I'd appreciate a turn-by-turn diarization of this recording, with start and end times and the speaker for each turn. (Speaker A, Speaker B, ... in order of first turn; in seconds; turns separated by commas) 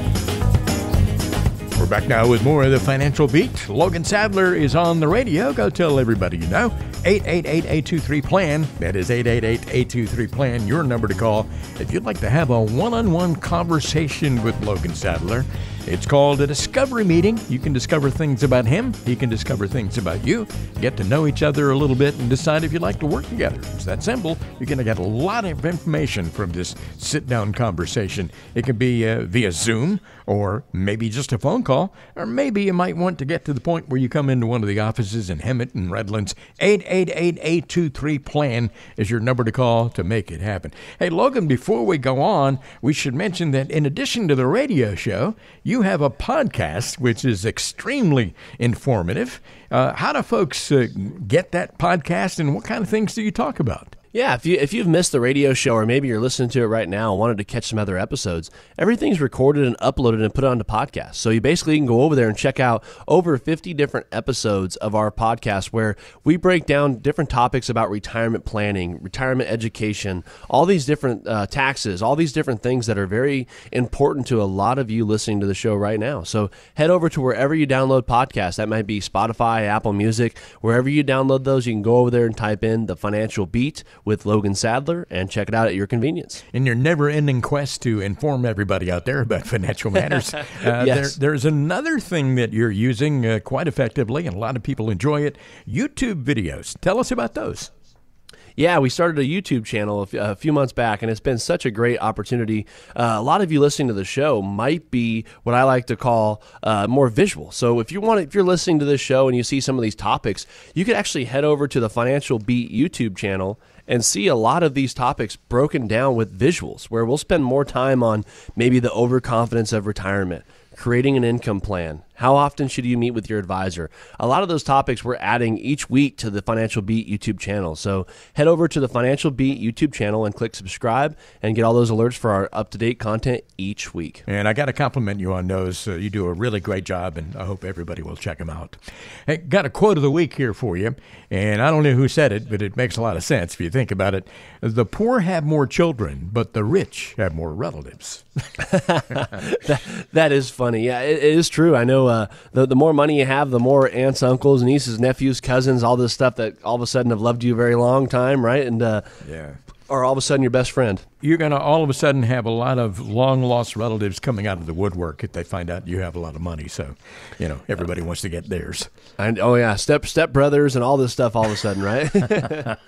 Speaker A: 1.7-53.9, Speaker B: 54.1-86.4, Speaker A: 86.5-97.7, Speaker B: 90.5-91.1, Speaker B: 98.6-134.2, Speaker A: 134.3-148.4, Speaker B: 148.6-159.1, Speaker A: 159.2-159.6, Speaker B: 159.9-161.1, Speaker A: 161.2-168.9, Speaker B: 169.2-172.7